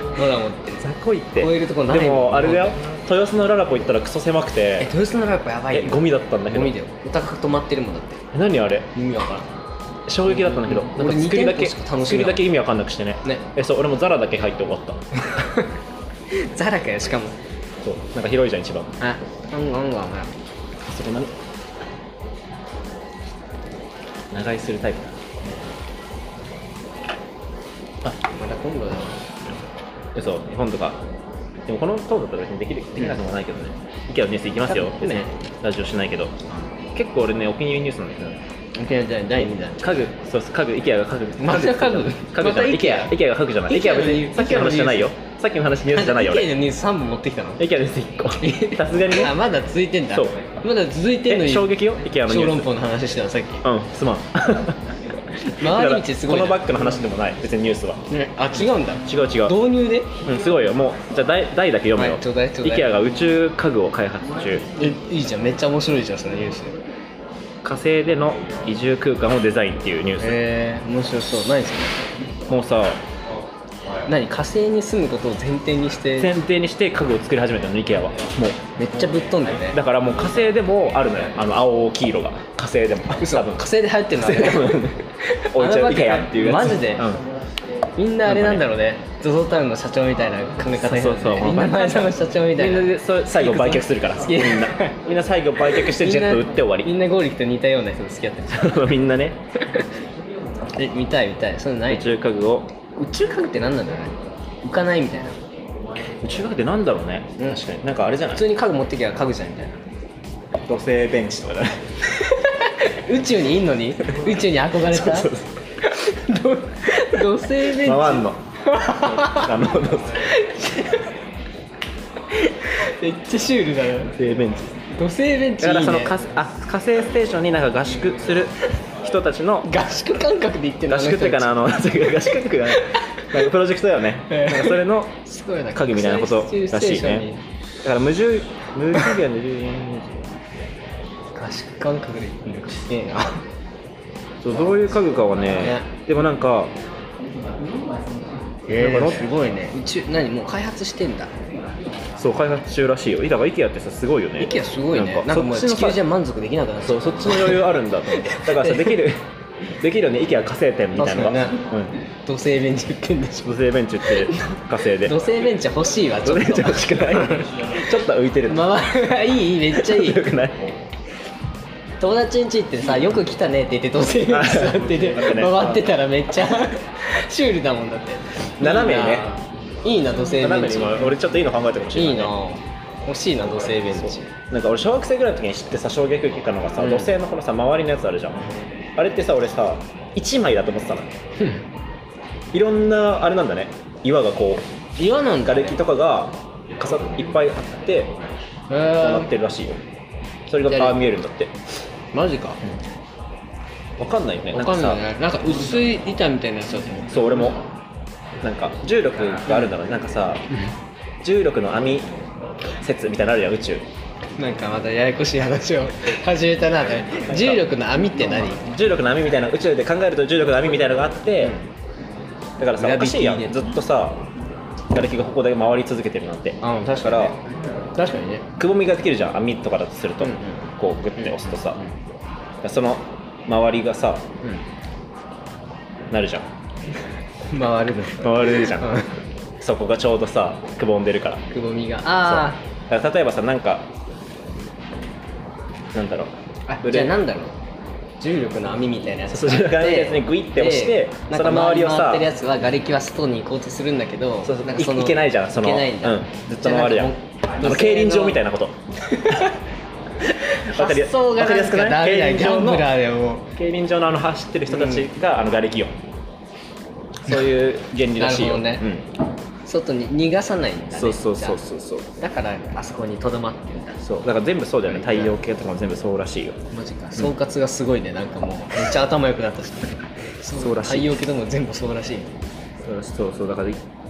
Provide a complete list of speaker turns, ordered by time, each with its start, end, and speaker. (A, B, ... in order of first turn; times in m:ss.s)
0:00.1-0:00.8 A
0:00.8-0:04.9 B
0:01.4-0:02.8 A
0:04.8-0:08.2 A
0:05.7-0:06.7 B
0:08.3-0:08.9 B
0:08.9-0:09.5 A
0:10.1-0:15.0 B
0:10.3-0:12.5 A
0:15.3-0:15.7 A
0:16.3-0:17.4 A
0:17.8-0:18.9 B
0:19.0-0:20.3 A
0:20.8-0:21.3 B
0:24.3-0:25.3 B
0:28.2-0:29.2 A
0:30.1-0:31.0 B
0:31.7-0:38.4 B
0:34.6-0:35.3 A
0:38.8-0:40.0 A
0:39.4-0:46.5 B
0:41.4-0:45.1 A
0:45.9-0:47.6 A
0:47.6-0:49.4 B
0:48.4-0:53.6 A
0:50.1-0:50.4 B
0:51.2-0:52.7 B
0:53.6-0:54.9 B
0:55.4-0:58.0 B
0:55.6-0:56.6 A
0:58.1-1:00.1 A
0:59.0-0:59.6 B
1:00.2-1:04.7 B
1:01.9-1:02.9 A
1:04.8-1:06.8 A
1:07.6-1:10.4 B
1:10.2-1:12.0 A
1:12.5-1:13.0 B
1:14.0-1:16.3 A
1:16.2-1:18.6 B
1:18.8-1:19.8 A
1:19.7-1:27.2 B
1:23.1-1:24.7 A
1:25.2-1:27.1 A
1:28.0-1:35.0 A
1:28.2-1:28.6 B
1:30.8-1:36.9 B
1:35.7-1:38.6 A
1:38.5-1:39.4 B
1:40.7-1:42.1 A
1:41.9-1:42.7 B
1:43.0-1:45.4 A
1:46.2-1:48.5 B
1:48.3-1:49.8 A
1:50.6-1:51.8 B
1:52.1-2:01.0 A
1:54.8-1:55.5 B
1:57.6-1:58.4 B
1:58.9-2:00.3 B
2:02.3-2:04.1 A
2:04.1-2:04.7 B
2:04.9-2:06.1 A
2:05.6-2:09.7 B
2:09.6-2:12.2 A
2:10.9-2:15.2 B
2:14.3-2:17.4 A
2:15.7-2:17.3 B
2:17.8-2:20.3 B
2:21.3-2:23.4 A
2:24.4-2:26.7 B
2:25.6-2:25.9 A
2:28.7-2:31.3 A
2:28.7-2:29.3 B
2:32.2-2:36.0 B
2:34.4-2:39.0 A
2:36.8-2:41.9 B
2:40.9-2:41.6 A
2:42.2-2:47.6 A
2:43.4-2:45.2 B
2:46.2-2:48.7 B
2:48.5-2:50.2 A
2:49.7-2:50.7 B
2:52.0-3:01.1 A
2:54.2-2:55.8 B
2:58.6-2:59.3 B
3:00.3-3:02.3 B
3:01.9-3:04.3 A
3:03.9-3:08.4 B
3:06.8-3:07.1 A
3:09.0-3:11.1 B
3:12.5-3:14.7 B
3:15.0-3:15.8 A
3:15.4-3:18.1 B
3:18.7-3:19.3 A
3:19.0-3:19.8 B
3:20.5-3:21.5 B
3:20.7-3:21.0 A
3:22.1-3:22.6 A
3:24.0-3:25.0 B
3:24.5-3:27.1 A
3:27.1-3:27.6 B
3:28.4-3:30.4 B
3:31.2-3:32.1 B
3:32.8-3:33.8 B
3:34.4-3:38.6 A
3:37.2-3:37.7 B
3:38.6-3:41.6 B
3:42.6-3:44.2 B
3:42.8-3:43.6 A
3:44.9-3:47.4 B
3:46.6-3:47.4 A
3:48.0-3:48.5 A
3:48.6-3:51.8 B
3:50.2-3:50.6 A
3:51.2-3:51.9 A
3:52.6-3:54.3 B
3:56.1-3:56.4 B
3:57.4-3:59.2 A
3:58.1-3:59.1 B
3:59.6-4:01.4 B
4:01.5-4:02.6 A
4:02.2-4:03.9 B
4:05.9-4:07.2 B
4:06.7-4:07.6 A
4:08.2-4:18.4 A
4:09.3-4:12.3 B
4:14.4-4:18.8 B
4:19.0-4:19.6 A
4:20.2-4:23.5 A
4:20.6-4:22.9 B
4:23.5-4:26.0 B
4:24.7-4:25.0 A
4:27.2-4:29.1 B
4:28.2-4:28.9 A
4:29.6-4:31.6 A
4:30.9-4:32.1 B
4:32.2-4:34.0 A
4:34.0-4:36.6 B
4:34.9-4:35.4 A
4:36.7-4:42.3 A
4:40.5-4:41.3 B
4:42.8-4:43.8 B